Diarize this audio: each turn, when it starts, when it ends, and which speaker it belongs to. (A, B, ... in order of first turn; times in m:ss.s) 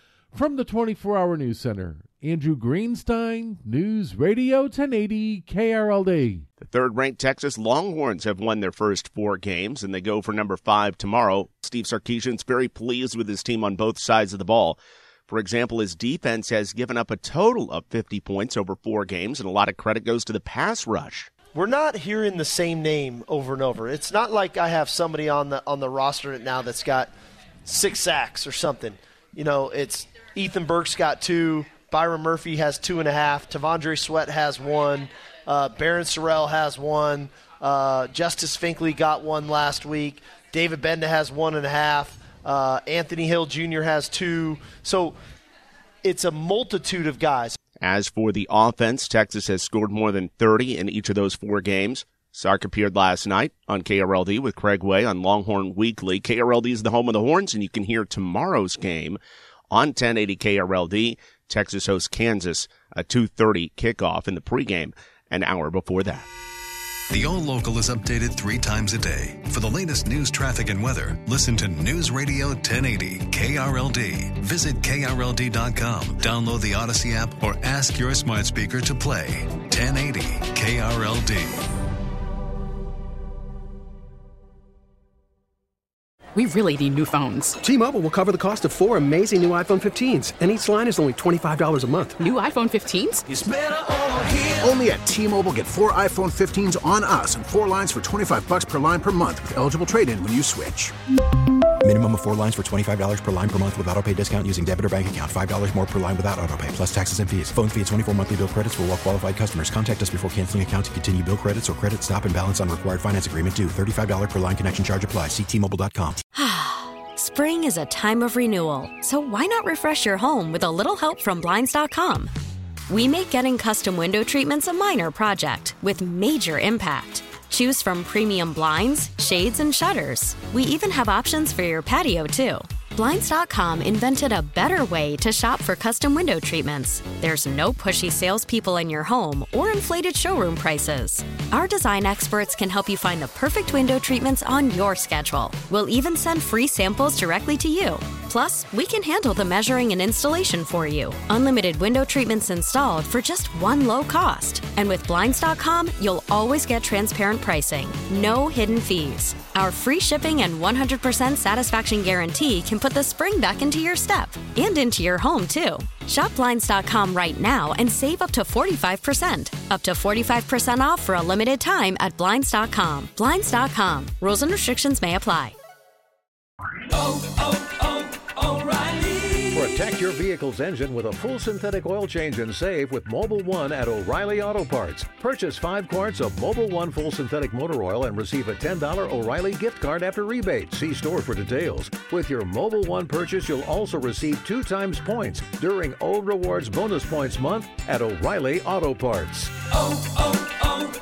0:00.3-0:06.4 A
0:06.6-0:21.3 B
0:21.5-0:27.1 C
0:27.7-0:45.2 C
0:46.0-0:47.6 C
0:47.8-0:59.2 B
0:59.7-1:06.3 B
1:07.1-1:21.7 D
1:26.4-1:27.5 E
1:27.6-1:32.1 F
1:32.2-1:33.2 E
1:34.5-1:40.9 G
1:41.8-1:56.2 H
1:56.4-2:02.3 I
2:02.9-2:55.6 I
2:59.5-3:19.5 A